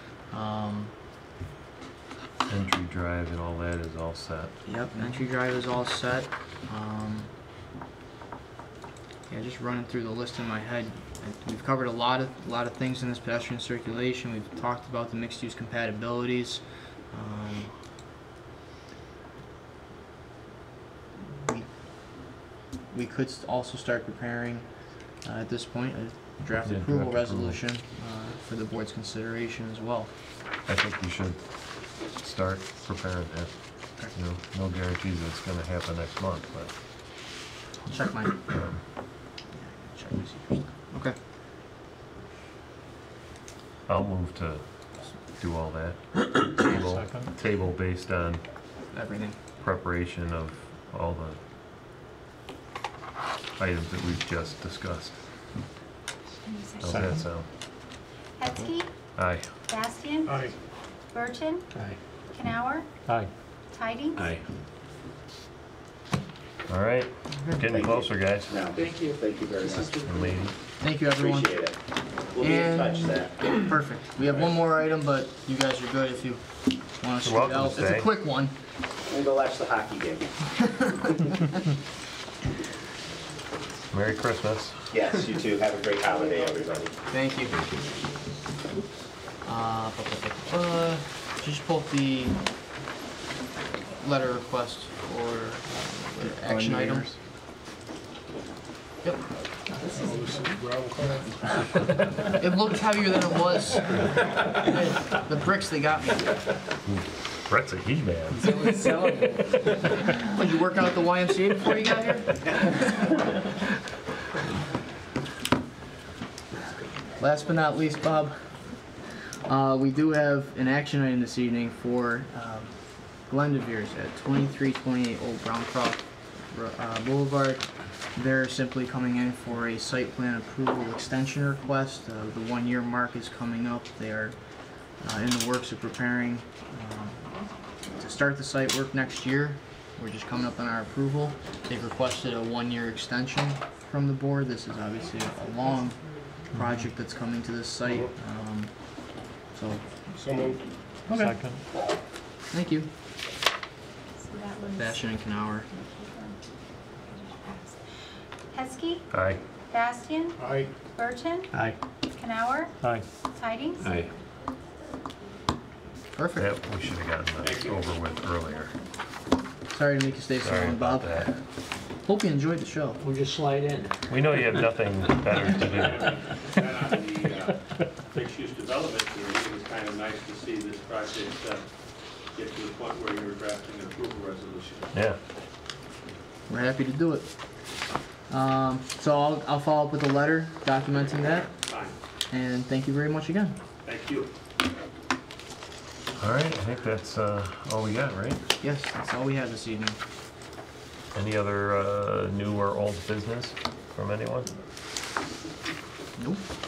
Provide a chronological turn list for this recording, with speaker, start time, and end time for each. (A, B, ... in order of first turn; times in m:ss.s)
0:00.3-0:00.9 A
0:02.5-0:04.5 B
0:04.7-0:07.3 A
0:09.3-0:17.7 A
0:21.3-0:21.7 A
0:22.9-0:24.7 A
0:25.2-0:30.1 A
0:26.6-0:27.6 B
0:30.7-0:31.4 B
0:32.1-0:33.5 B
0:34.1-0:36.7 B
0:37.9-0:38.6 A
0:39.6-0:41.2 A
0:43.9-0:44.6 B
0:45.4-0:48.4 B
0:48.9-0:49.4 A
0:49.6-0:51.4 B
0:53.6-0:55.2 B
0:56.4-0:57.1 C
0:56.8-0:57.5 B
0:58.4-0:58.9 C
0:59.2-0:59.4 B
0:59.7-1:00.5 C
1:01.1-1:01.7 C
1:02.3-1:02.9 C
1:03.7-1:04.4 C
1:06.7-1:08.6 B
1:07.7-1:10.0 D
1:08.7-1:10.3 E
1:10.0-1:10.6 B
1:10.8-1:11.6 A
1:11.1-1:11.8 D
1:12.3-1:13.3 D
1:12.4-1:16.4 A
1:17.0-1:18.5 A
1:17.2-1:18.1 B
1:19.1-1:20.3 D
1:20.8-1:21.2 A
1:23.9-1:24.8 B
1:24.9-1:26.9 D
1:27.1-1:27.6 A
1:29.4-1:32.4 A
1:34.0-1:37.1 A
1:39.9-1:41.6 F
1:42.2-1:46.4 A
1:46.9-1:49.3 B
1:48.4-1:53.2 A
1:57.2-1:58.4 A
1:59.4-2:02.7 A
2:03.3-2:14.4 A
2:15.0-2:17.3 A
2:17.9-2:26.0 A
2:26.5-2:28.7 A
2:29.5-2:30.0 A
2:30.2-2:30.6 F
2:31.1-2:31.5 E
2:32.5-2:32.9 A
2:34.2-2:35.0 C
2:34.7-2:35.7 A
2:35.7-2:36.4 C
2:37.0-2:37.8 C
2:38.5-2:39.1 C
2:39.1-2:39.4 B
2:39.7-2:41.5 C
2:40.4-2:40.7 F
2:42.1-2:42.8 C
2:43.3-2:44.0 C
2:46.2-2:46.5 A
2:46.4-2:48.7 B
2:47.4-2:47.9 E
2:49.7-2:51.4 A
2:50.4-2:51.3 B
2:52.0-2:53.0 A
2:53.0-2:53.9 E
2:54.1-2:56.2 B
2:55.6-2:57.6 E
2:58.1-3:01.6 E
3:02.3-3:04.9 E
3:06.5-3:07.3 A
3:08.3-3:11.5 A
3:11.7-3:12.0 E
3:12.3-3:13.6 A
3:13.8-3:14.3 E
3:16.2-3:18.4 B
3:18.6-3:20.0 A
3:21.1-3:24.5 B
3:26.2-3:26.4 A